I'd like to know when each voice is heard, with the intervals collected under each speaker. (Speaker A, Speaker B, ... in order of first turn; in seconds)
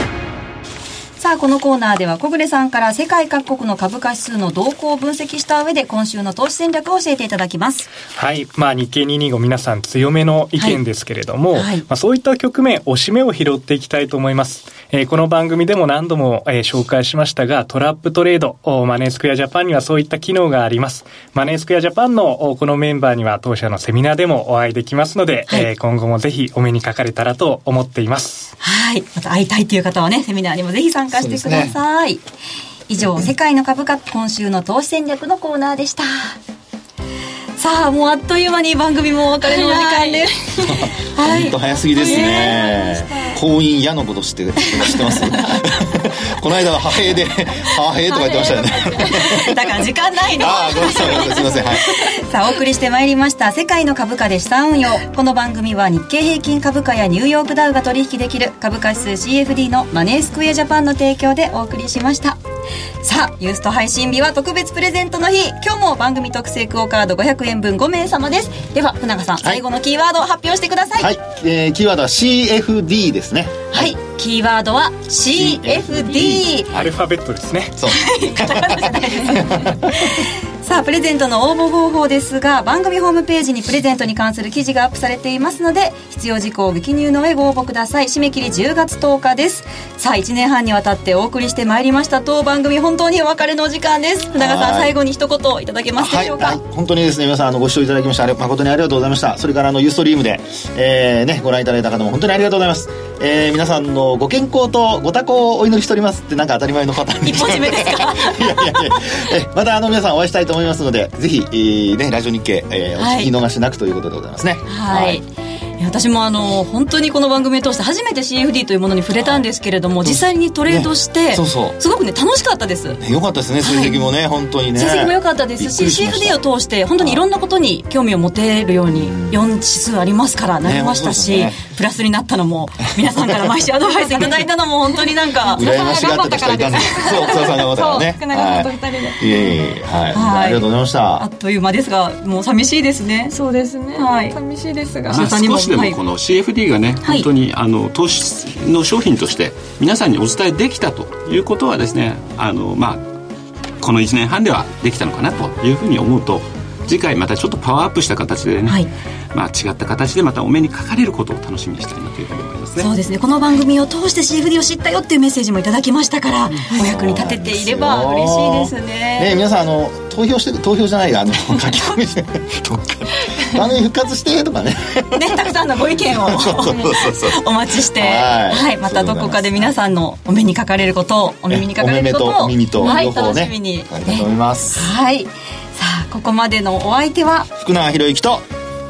Speaker A: 1.2-7.9, 11.5-11.8, 28.6-32.2, 32.9-36.4, 37.6-40.5, 41.0-42.6, 44.9-45.5, 49.0-62.4, 63.0-71.1, 73.7-76.7, 77.9-96.6, 107.2-109.1, 113.0-113.3, 114.7-115.3, 115.8-123.0, 123.6-124.1, 124.8-135.7, 140.1-143.4, 143.9-144.4, 145.1-146.0, 162.8-169.3, 171.5-172.0, 175.1-187.5
Speaker B: 8.1-28.5, 76.7-77.8
Speaker C: 31.1-31.8, 40.6-49.5, 50.4-51.9, 71.0-73.9, 75.3-76.9, 77.8-80.1, 94.4-95.0, 96.0-115.2, 119.2-119.4, 120.0-121.8, 123.0-126.4, 128.9-129.4, 130.6-131.6, 135.6-141.2, 166.7-175.3, 176.1-179.8, 181.5-184.9, 187.6-188.4
Speaker D: 39.4-40.8, 41.9-43.4, 48.1-49.6, 51.0-51.4, 134.0-134.4, 135.4-139.6, 143.3-145.5, 182.8-183.1
Speaker E: 145.1-153.0, 153.8-158.8, 159.3-162.9